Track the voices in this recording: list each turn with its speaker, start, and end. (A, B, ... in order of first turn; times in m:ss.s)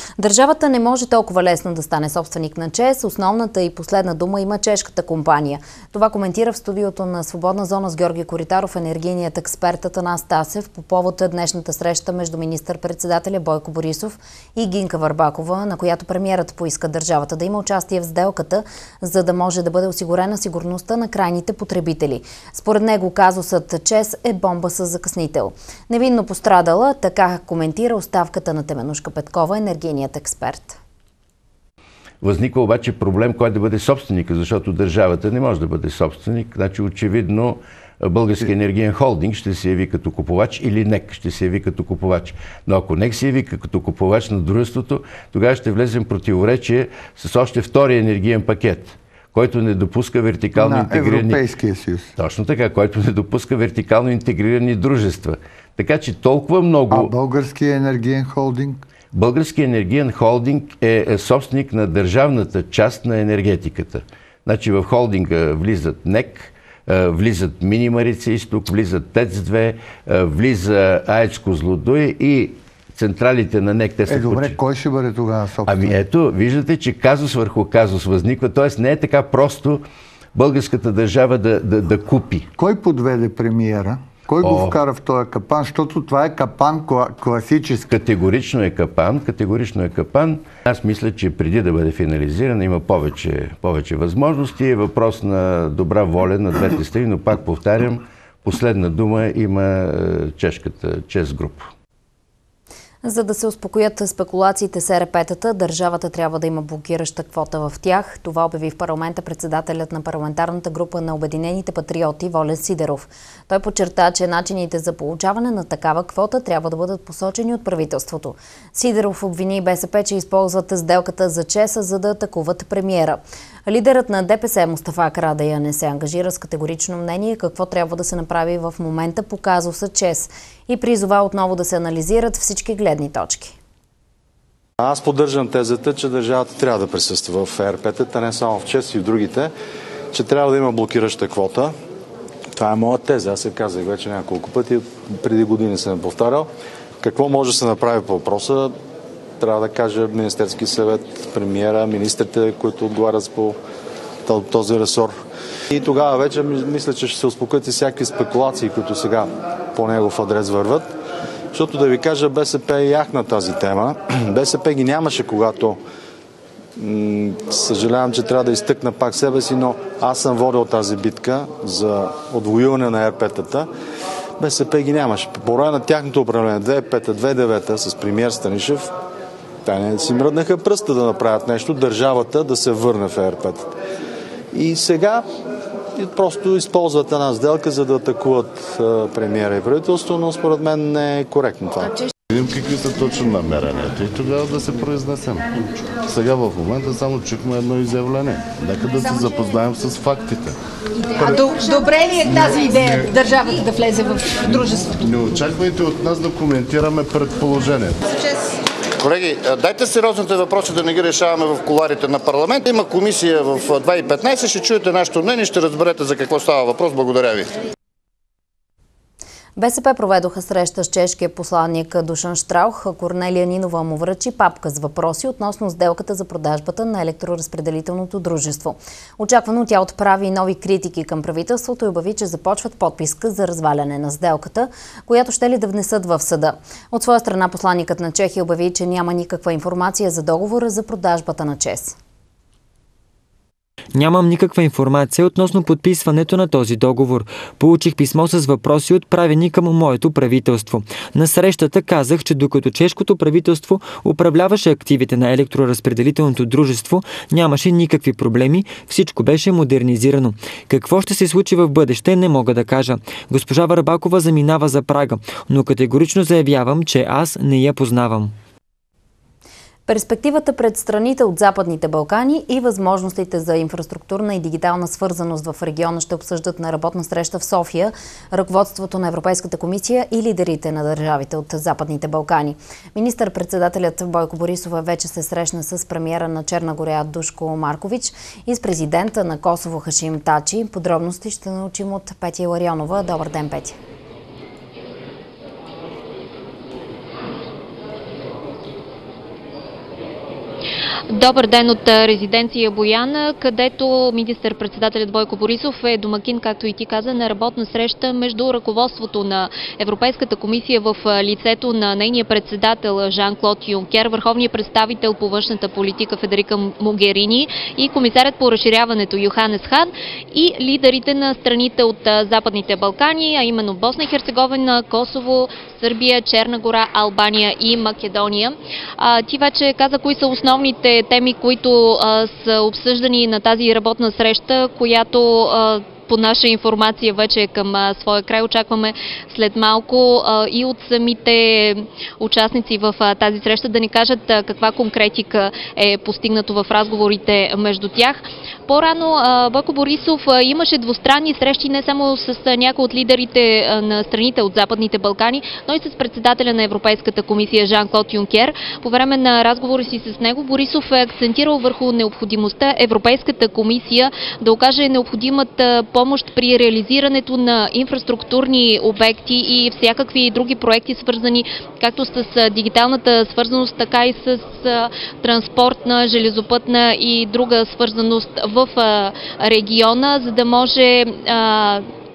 0:00.2-0:30.8 A
0:32.2-0:51.4 B
0:50.5-0:52.1 C
0:52.2-0:57.1 B
0:56.9-0:58.8 C
0:59.1-1:14.6 B
1:14.1-1:15.9 C
1:15.6-1:19.8 B
1:20.3-1:22.5 B
1:22.6-1:27.8 C
1:24.4-1:24.8 B
1:27.9-1:41.7 B
1:43.0-2:13.5 A
2:14.8-2:19.5 D
2:20.1-2:21.7 D
2:22.5-2:26.5 D
2:27.0-2:28.8 D
2:29.4-2:33.6 D
2:34.2-2:35.1 D
2:35.7-2:40.9 D
2:41.5-2:45.8 D
2:46.8-2:53.7 D
2:54.4-2:58.9 D
2:59.6-3:03.7 D
3:04.5-3:05.3 D
3:06.0-3:12.0 D
3:12.3-3:20.6 E
3:21.0-3:24.9 F
3:24.5-3:28.0 E
3:29.0-3:37.5 G
3:39.6-4:02.0 A
4:03.9-4:28.3 H
4:29.9-4:53.8 A
5:01.1-6:21.9 I